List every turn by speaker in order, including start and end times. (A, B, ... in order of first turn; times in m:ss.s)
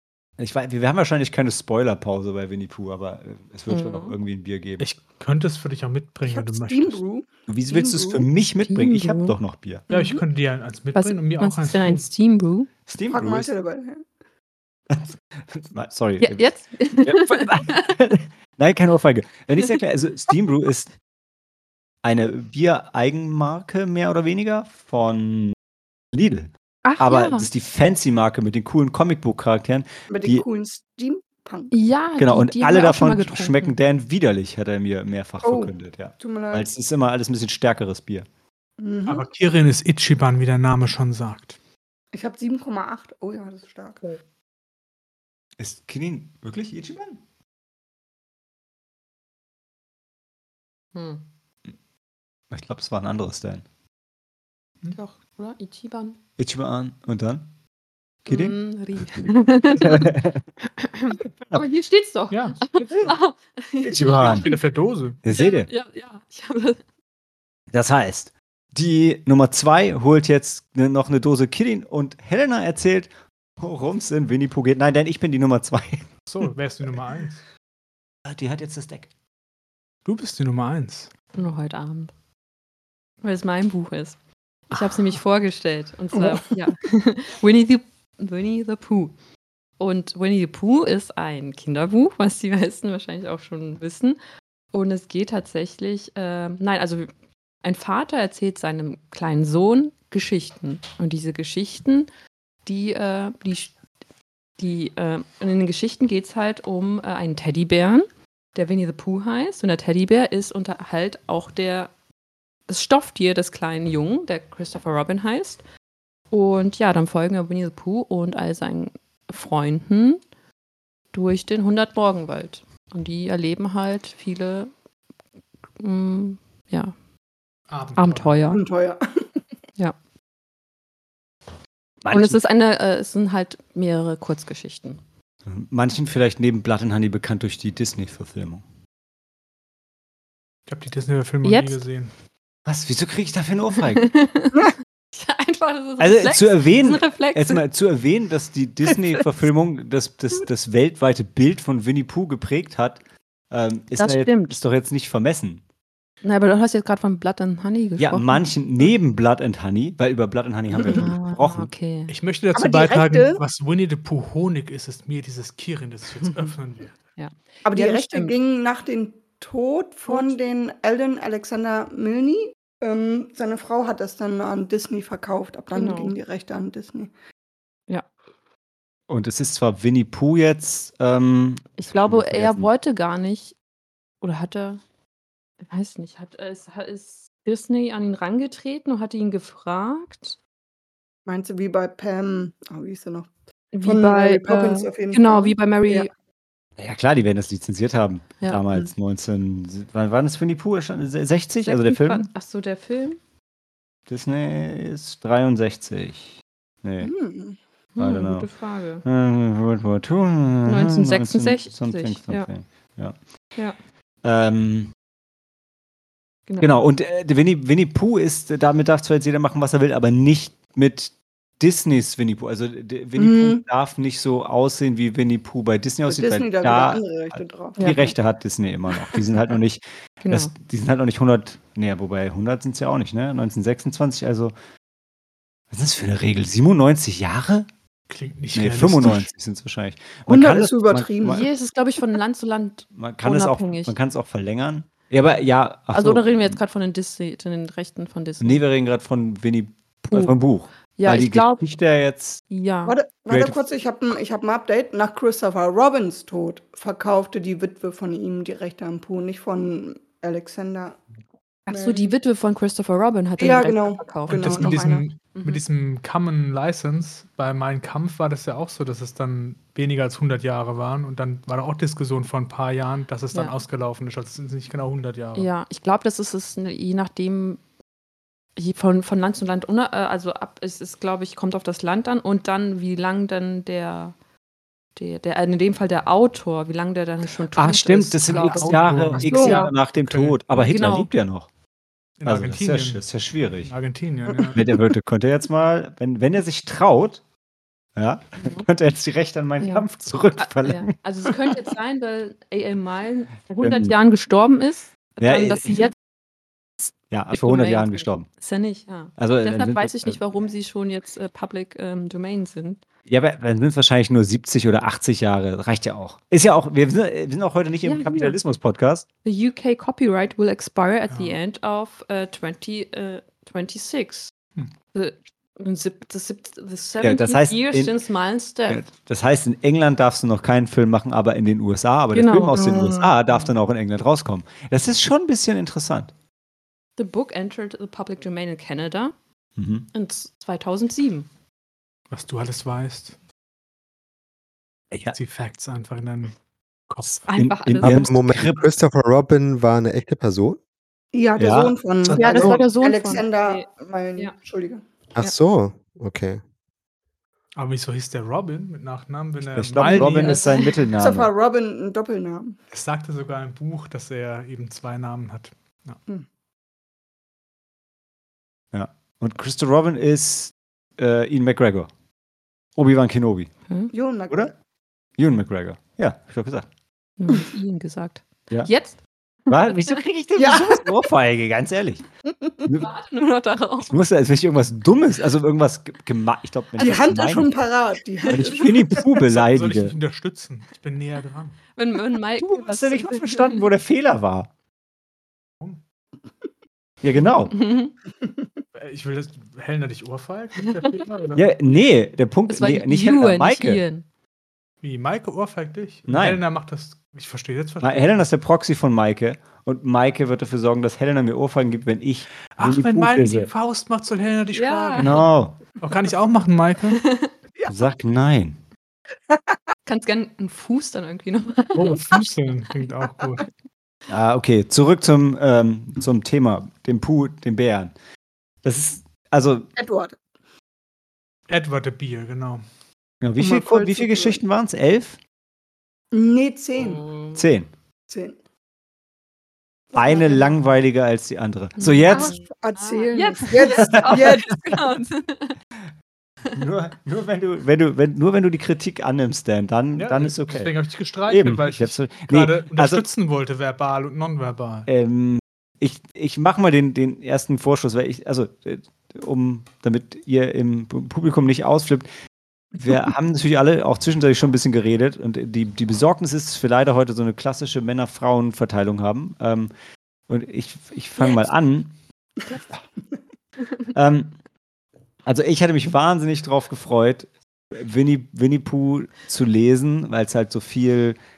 0:00.4-0:04.9 A
0:03.7-0:04.1 B
0:04.8-0:07.0 C
0:06.3-0:08.3 D
0:07.5-0:09.8 A
0:08.6-0:09.4 B
0:09.9-0:10.2 B
0:09.9-0:12.0 C
0:10.9-0:12.7 B
0:12.8-0:13.5 A
0:13.1-0:14.0 D
0:14.9-0:16.5 A
0:16.2-0:17.9 B
0:17.0-0:20.9 A
0:22.0-0:25.5 A
0:26.1-0:30.4 A
0:26.8-0:27.5 B
0:30.1-0:31.7 D
0:31.7-0:33.7 B
0:32.2-0:38.2 A
0:35.4-0:36.7 D
0:38.8-0:39.3 D
0:39.0-0:41.6 C
0:42.1-0:44.0 D
0:45.6-0:47.2 A
0:50.9-0:51.2 B
0:52.5-0:53.6 A
0:54.9-0:56.2 B
0:56.4-0:57.4 A
0:58.2-0:58.6 A
0:58.3-1:00.1 B
0:59.8-1:00.4 A
1:00.8-1:04.6 B
1:01.2-1:01.6 A
1:02.3-1:02.7 C
1:02.9-1:03.1 A
1:03.8-1:04.5 A
1:04.2-1:05.2 C
1:05.2-1:05.7 A
1:05.3-1:06.8 B
1:07.7-1:16.0 A
1:16.2-1:17.4 C
1:18.2-1:19.1 A
1:20.0-1:21.1 C
1:21.3-1:22.1 B
1:23.2-1:24.2 B
1:24.7-1:29.1 B
1:24.8-1:25.1 C
1:29.8-1:34.2 B
1:34.7-1:37.1 B
1:37.6-1:42.1 B
1:42.6-1:43.7 B
1:44.6-1:51.9 B
1:52.7-1:55.6 B
1:56.3-2:00.2 B
2:01.1-2:04.7 B
2:05.8-2:06.9 B
2:07.7-2:08.4 C
2:08.0-2:08.6 B
2:08.5-2:09.2 D
2:12.0-2:12.4 A
2:12.1-2:15.0 B
2:15.5-2:18.6 A
2:20.7-2:22.1 C
2:21.4-2:21.8 B
2:22.6-2:24.1 A
2:23.9-2:24.6 B
2:25.1-2:27.6 B
2:26.0-2:35.6 A
2:34.0-2:34.6 B
2:36.2-2:38.4 B
2:38.0-2:41.7 A
2:40.8-2:41.1 D
2:40.9-2:42.1 B
2:42.1-2:46.9 C
2:42.5-2:43.4 D
2:47.2-2:48.3 B
2:47.6-2:57.1 D
2:50.1-2:50.3 B
2:55.7-2:56.2 B
2:59.1-3:02.7 A
3:01.8-3:03.5 B
3:04.2-3:04.8 B
3:05.7-3:10.4 B
3:11.2-3:13.3 D
3:13.7-3:16.1 B
3:13.8-3:16.1 D
3:16.8-3:22.3 A
3:21.6-3:23.2 B
3:24.1-3:26.3 A
3:26.8-3:27.1 A
3:27.0-3:27.6 D
3:28.0-3:29.0 B
3:28.0-3:28.5 A
3:29.0-3:33.1 A
3:30.6-3:32.5 B
3:34.2-3:34.9 A
3:36.6-3:54.5 A
3:43.2-3:43.6 D
3:46.1-3:48.1 D
3:50.2-3:50.5 B
3:55.7-3:57.7 A
3:58.1-3:59.3 C
3:58.5-4:01.5 A
4:00.3-4:01.4 D
4:01.3-4:03.9 B
4:02.9-4:06.6 A
4:05.9-4:08.6 B
4:08.4-4:12.5 A
4:10.1-4:10.3 B
4:11.0-4:11.6 B
4:12.5-4:13.0 B
4:12.8-4:21.0 D
4:13.3-4:13.6 A
4:21.7-4:25.6 B
4:21.7-4:22.1 D
4:23.4-4:25.0 D
4:24.3-4:35.5 C
4:35.4-4:37.6 B
4:38.6-4:44.1 B
4:45.0-4:49.7 B
4:47.5-4:51.5 A
4:48.3-4:50.4 C
4:49.3-4:49.6 D
4:50.5-4:51.1 B
4:52.2-4:53.0 C
4:52.2-4:53.7 A
4:53.6-4:54.6 C
4:54.5-4:57.2 A
4:58.0-5:00.9 A
4:59.6-4:59.8 B
5:00.4-5:05.9 B
5:03.6-5:03.9 A
5:05.2-5:05.8 A
5:07.1-5:08.2 A
5:07.3-5:12.8 B
5:09.2-5:10.2 A
5:13.1-5:19.0 A
5:17.8-5:18.4 B
5:19.2-5:24.3 B
5:21.1-5:21.4 C
5:24.9-5:28.8 B
5:27.0-5:28.0 A
5:28.7-5:36.1 A
5:32.1-5:33.4 B
5:37.0-5:39.1 B
5:39.6-5:39.9 A
5:39.9-5:41.3 B
5:42.1-5:43.1 C
5:45.0-5:46.4 C
5:46.9-5:47.3 C
5:47.0-5:48.7 A
5:47.3-5:48.1 B
5:47.8-5:50.6 E
5:51.1-5:54.8 D
5:51.4-5:52.6 A
5:52.1-5:54.3 B
5:55.1-5:56.4 E
5:57.6-6:00.4 C
5:59.5-6:01.3 A
5:59.8-6:00.8 B
6:01.0-6:02.6 D
6:02.7-6:06.0 C
6:08.7-6:11.9 A
6:12.8-6:13.5 A
6:13.9-6:14.5 D
6:15.2-6:16.7 A
6:17.2-6:20.0 B
6:19.5-6:22.0 A
6:20.4-6:21.0 D
6:22.6-6:22.9 A
6:22.7-6:24.0 B
6:23.8-6:27.5 A
6:26.8-6:29.0 D
6:28.3-6:29.9 A
6:29.3-6:31.6 C
6:31.8-6:33.6 B
6:32.4-6:34.5 A
6:37.0-6:37.6 A
6:37.5-6:37.9 B
6:38.8-6:41.4 C
6:41.3-6:43.8 A
6:42.5-6:44.0 B
6:44.8-6:48.2 C
6:46.1-6:46.4 A
6:47.8-6:53.5 A
6:52.5-6:55.2 C
6:54.5-6:55.2 B
6:55.0-6:55.6 A
6:55.8-6:57.0 C
6:57.0-6:57.3 B
6:57.6-6:57.8 D
6:57.7-6:58.6 A
6:59.3-6:59.6 D
6:59.8-7:02.2 B
7:01.7-7:03.4 C
7:04.1-7:07.9 A
7:08.6-7:09.7 A
7:09.8-7:10.2 D
7:11.5-7:12.6 C
7:13.2-7:15.2 A
7:13.4-7:14.4 D
7:16.1-7:17.0 D
7:16.8-7:17.4 B
7:17.3-7:17.7 A
7:18.1-7:18.4 D
7:19.9-7:20.5 D
7:19.9-7:22.4 A
7:21.8-7:25.6 B
7:22.1-7:24.5 D
7:23.6-7:24.8 A
7:26.5-7:30.7 A
7:30.0-7:34.9 C
7:31.3-7:33.0 A
7:34.8-7:42.1 A
7:42.7-7:49.7 A
7:50.3-7:51.9 A
7:53.9-7:54.4 A
7:55.2-8:01.2 A